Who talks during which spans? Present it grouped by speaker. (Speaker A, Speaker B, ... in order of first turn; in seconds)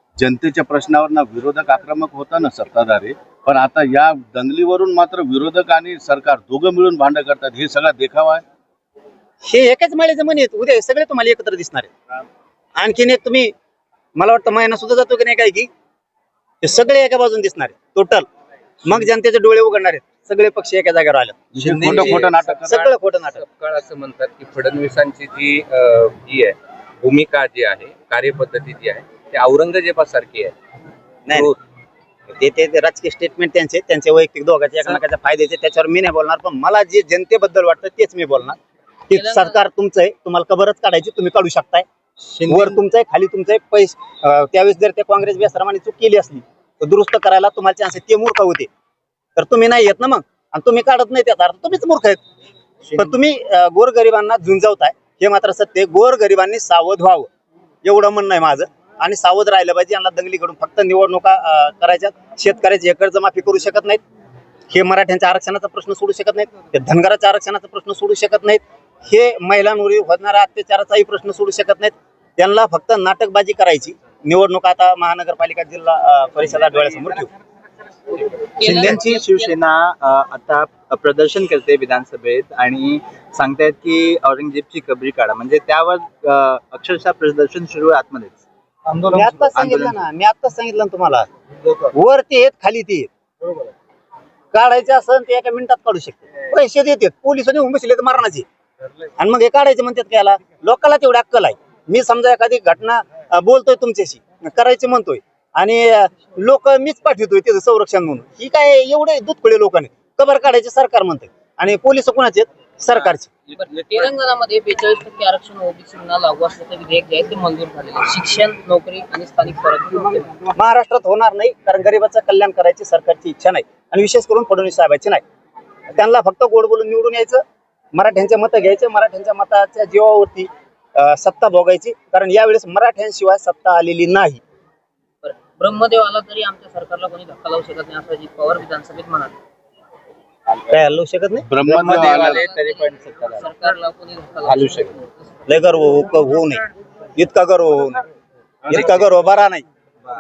Speaker A: 0.2-8.4, 21.5-22.9, 141.5-142.4
Speaker B: 9.4-11.9, 12.8-13.5, 14.2-15.7, 16.6-18.2, 18.8-23.4, 31.3-31.5, 32.4-38.6, 39.1-41.9, 42.5-48.7, 49.4-52.2, 53.0-57.3, 57.8-64.0, 64.7-77.3, 89.1-91.3, 91.9-93.1, 94.5-98.4, 99.2-113.3, 120.5-125.2, 125.9-127.4, 127.9-134.4, 140.7-141.5, 145.5-146.6, 147.2-148.0, 148.7-149.6
Speaker C: 21.7-22.5, 23.3-30.5
Speaker D: 39.1-39.6, 78.6-79.5, 113.5-120.3, 135.2-139.3, 141.9-145.1
Speaker E: 42.2-42.8, 78.6-89.0, 89.5-90.0, 141.6-143.4